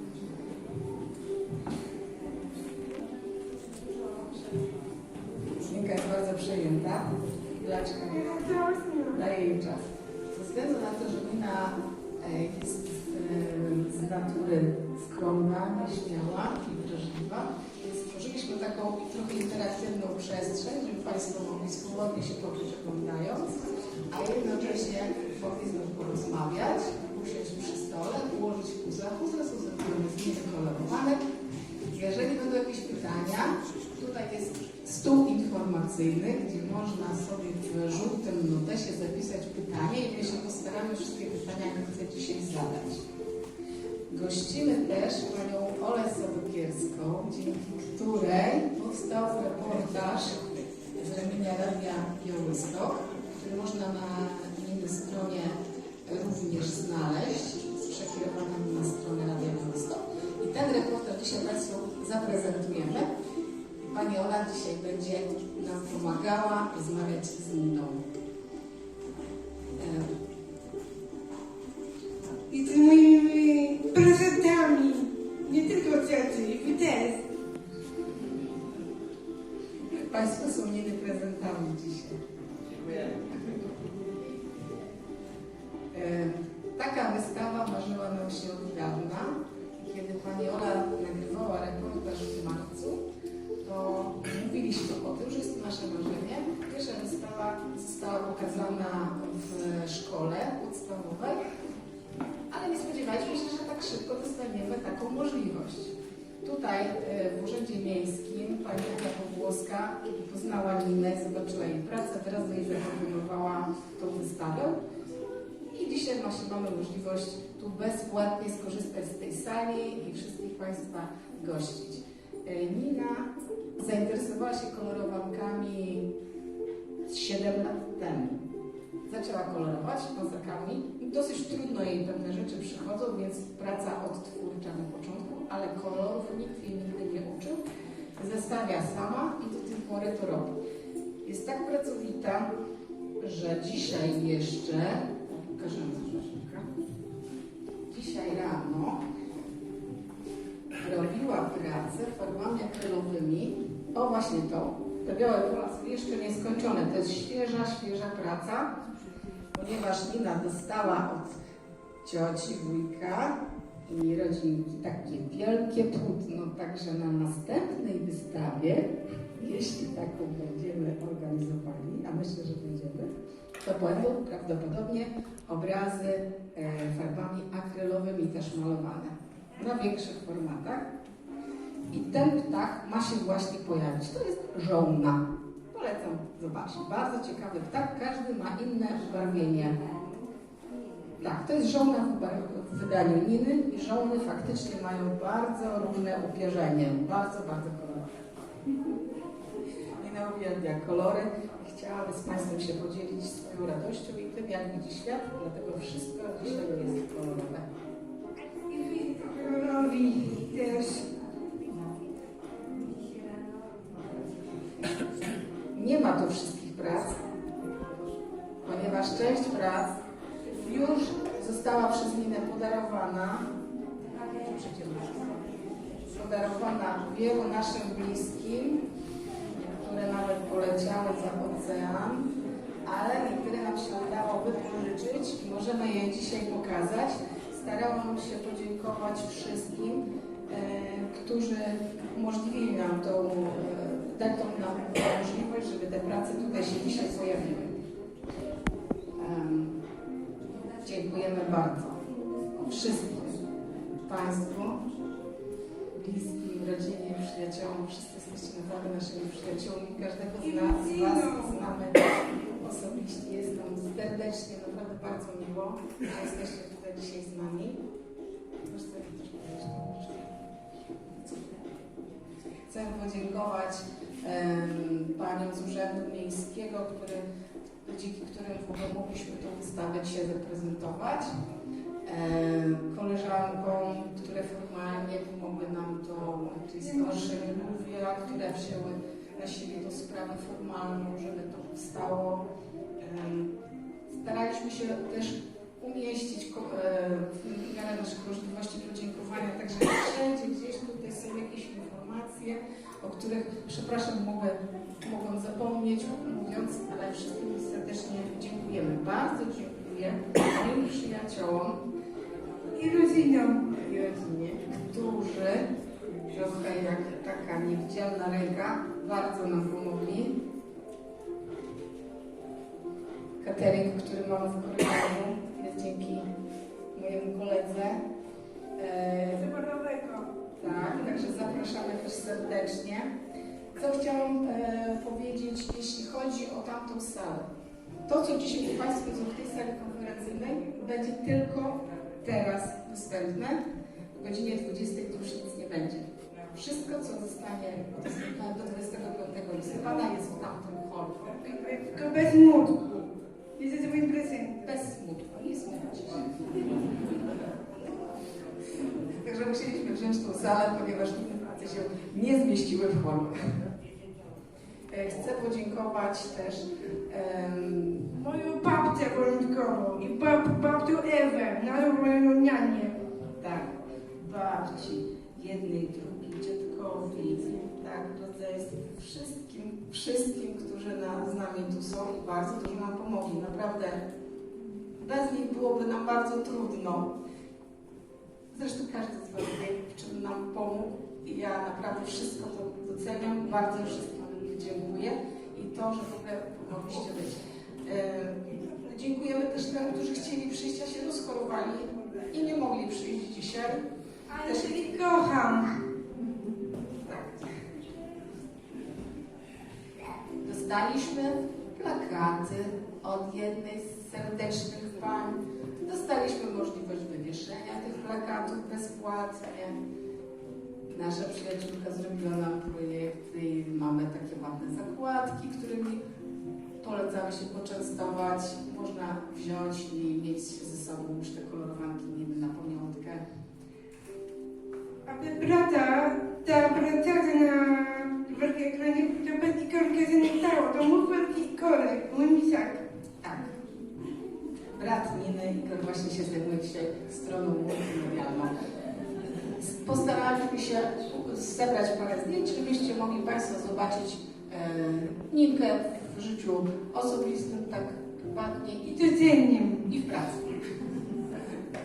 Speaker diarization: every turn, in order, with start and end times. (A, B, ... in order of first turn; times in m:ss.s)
0:05.6-0:08.5 A
0:08.1-0:09.2 B
0:09.0-0:31.2 A
0:31.9-0:43.0 A
0:44.1-1:03.1 A
1:03.8-1:08.0 A
1:09.8-1:10.1 A
1:12.5-1:17.3 B
1:20.1-1:22.2 A
1:22.8-1:23.4 A
1:25.9-1:33.0 A
1:33.6-1:41.4 A
1:42.5-1:54.8 A
1:55.7-2:06.1 A
2:07.0-2:08.4 A
2:09.0-2:17.6 A
2:18.2-2:20.6 A
2:21.2-2:22.5 A
2:23.2-2:26.7 A
2:27.9-2:29.0 A
2:30.8-2:38.7 A
2:39.5-2:41.4 A
2:42.0-2:53.1 A
2:53.6-3:00.8 A
3:01.9-3:05.2 A
3:05.7-3:09.9 A
3:11.2-3:18.1 A
3:20.0-3:27.6 A
3:28.6-3:31.1 B
3:35.7-3:37.2 A
3:38.6-3:39.9 A
3:40.6-3:43.5 A
3:44.3-3:45.4 A
3:46.1-3:48.8 A
3:49.8-3:52.3 A
3:52.8-4:07.8 A
4:09.2-4:09.8 A
4:10.8-4:13.5 A
4:14.0-4:14.8 A
4:15.9-4:27.8 A
4:20.4-4:21.6 B
4:28.6-4:30.4 A
4:32.7-4:37.2 A
4:37.8-4:41.3 A
4:42.0-4:52.4 A
4:53.0-4:53.5 A
4:54.1-5:11.8 A
5:12.7-5:13.8 B
5:13.7-5:15.7 A
5:16.3-5:20.4 A
5:23.4-5:26.3 A
5:26.9-5:28.0 A
5:28.8-5:29.5 A
5:29.4-5:30.3 B
5:30.6-5:33.1 A
5:33.7-5:37.5 A
5:38.0-5:43.6 A
5:44.1-5:51.4 A
5:51.4-5:53.0 B
5:53.6-5:54.7 B
5:54.6-5:56.8 A
5:59.1-6:03.4 A
6:04.9-6:08.1 A
6:08.1-6:13.0 B
6:13.4-6:24.0 A
6:25.0-6:27.1 A
6:28.5-6:43.8 A
6:44.3-6:45.8 B
6:44.4-6:44.9 A
6:50.4-6:59.7 A
7:00.9-7:06.0 A
7:06.8-7:13.2 A
7:15.0-7:22.8 B
7:23.2-7:23.6 A
7:24.8-7:28.5 A
7:29.4-7:39.0 A
7:38.8-7:39.9 B
7:39.8-7:40.6 A